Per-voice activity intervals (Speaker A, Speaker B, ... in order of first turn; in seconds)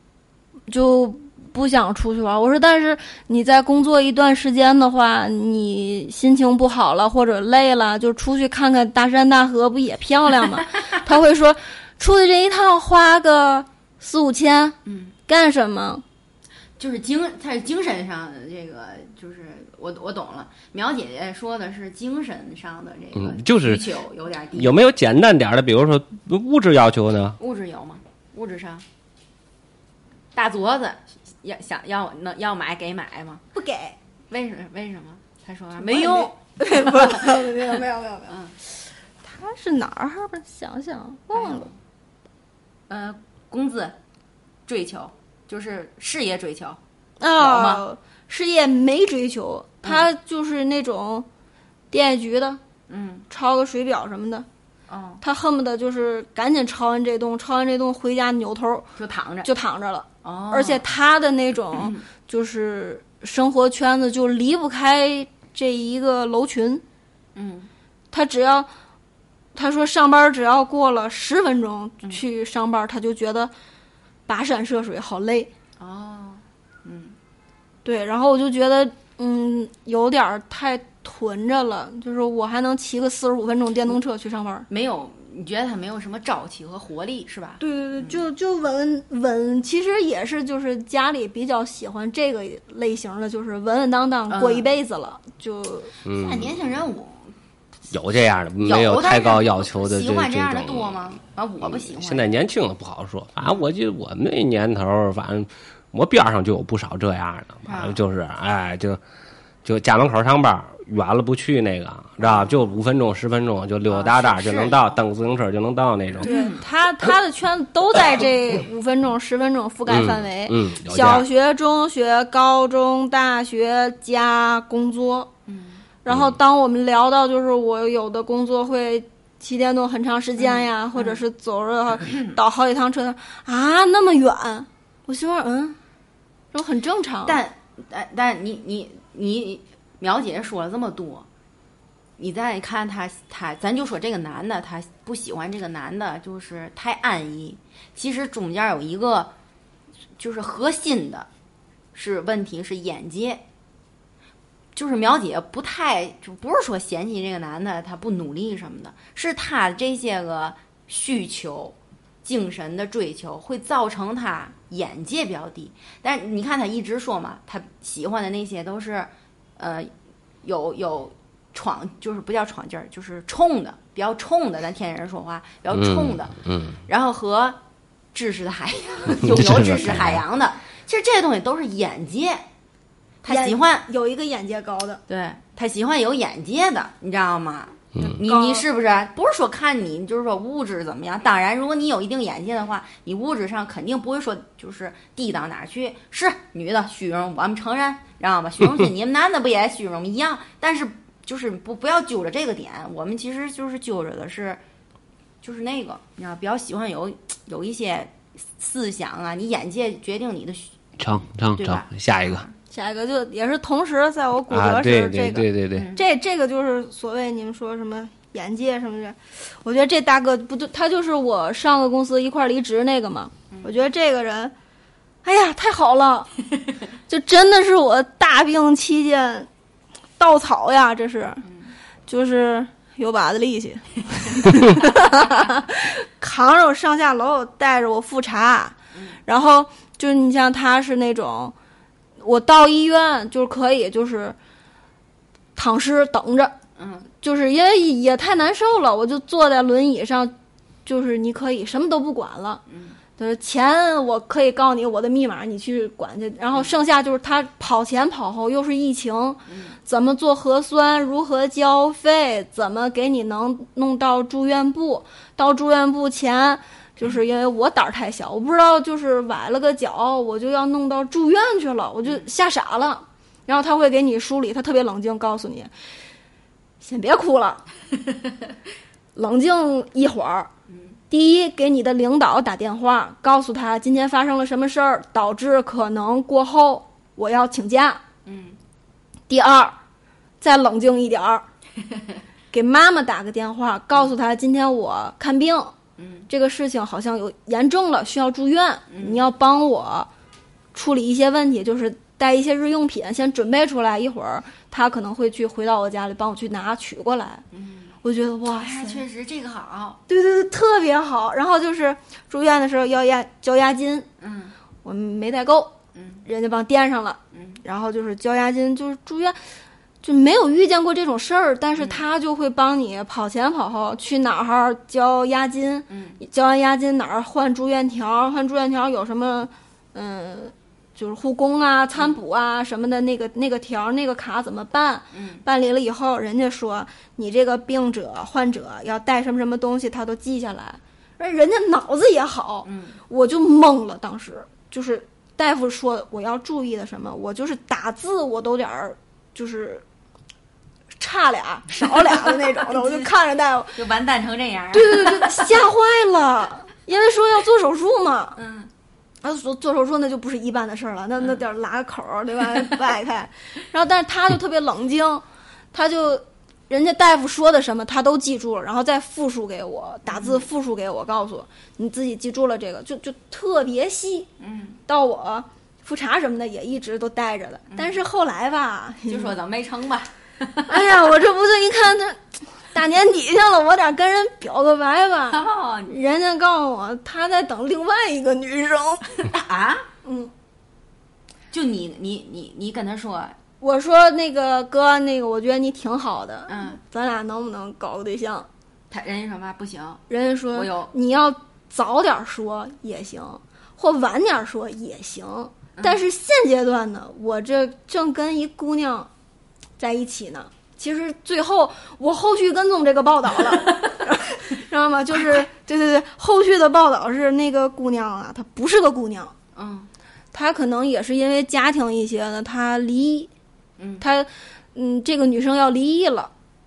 Speaker A: 0.7-16.0, 33.5-34.0, 35.8-38.4, 39.2-41.7, 47.2-51.3, 51.9-52.6, 53.3-54.5, 55.2-58.9, 59.5-66.8, 68.1-68.7, 69.5-73.5, 74.3-75.5, 77.8-84.7, 87.6-95.9, 116.2-125.3, 126.0-135.8, 136.5-137.4, 183.3-185.0, 188.1-188.7, 212.7-224.5, 225.2-226.5, 227.1-229.5, 230.2-231.4, 232.1-241.5, 242.2-244.4, 245.6-246.6, 247.2-250.3, 250.9-252.6, 253.2-275.7, 276.8-277.6, 279.1-280.5, 281.1-288.0, 289.3-289.8, 290.4-291.4, 292.5-295.7, 296.3-300.1, 300.7-307.4, 308.0-309.0, 310.1-314.1, 314.8-315.7, 316.2-319.4, 320.0-349.8, 351.0-353.8, 354.7-358.4, 359.2-374.3, 374.9-379.3, 380.7-389.3, 390.0-390.3, 393.6-398.5, 400.1-409.1, 409.8-419.3, 420.3-423.3, 424.0-426.3
Speaker B: 14.9-15.1, 16.8-24.8, 27.4-28.9, 30.4-33.4, 34.3-37.5, 38.3-38.5, 41.3-41.7, 42.9-44.0, 44.7-46.8, 47.4-47.8, 52.9-53.3, 54.9-55.2, 59.0-59.5, 60.2-60.8, 61.7-62.0, 67.4-67.7, 75.8-77.2, 84.7-88.2, 94.3-94.7, 96.1-97.3, 98.6-102.3, 107.7-108.0, 112.2-112.6, 113.9-115.0, 116.2-116.6, 125.5-125.8, 130.4-131.2, 132.1-132.4, 137.3-141.3, 142.2-149.3, 150.2-151.3, 151.9-153.4, 154.8-169.9, 170.4-176.3, 176.9-177.6, 178.1-182.4, 183.2-183.9, 185.1-204.6, 205.4-210.7, 211.6-212.5, 215.7-216.0, 231.5-231.7, 246.8-247.1, 252.7-253.0, 259.5-259.8, 280.7-281.0, 288.2-288.6, 296.0-296.3, 298.9-299.2, 307.5-307.9, 308.6-310.0, 314.2-314.6, 315.9-316.2, 317.3-317.6, 321.8-322.0, 325.9-326.2, 335.1-335.4, 342.6-343.0, 351.7-353.1, 353.8-355.6, 358.4-358.7, 370.1-370.5, 374.4-374.8, 377.7-378.0, 379.1-380.9, 385.3-386.0, 389.2-389.9, 391.5-393.4, 396.5-396.8, 398.9-400.0, 400.5-400.9, 405.8-406.0, 419.6-419.9, 423.8-424.1
Speaker C: 23.2-23.8, 24.6-27.4, 96.1-96.7, 97.9-101.1, 101.6-109.0, 109.6-116.3, 119.9-121.3, 126.1-126.4, 175.7-176.8, 179.2-180.2, 211.0-212.4, 214.5-215.9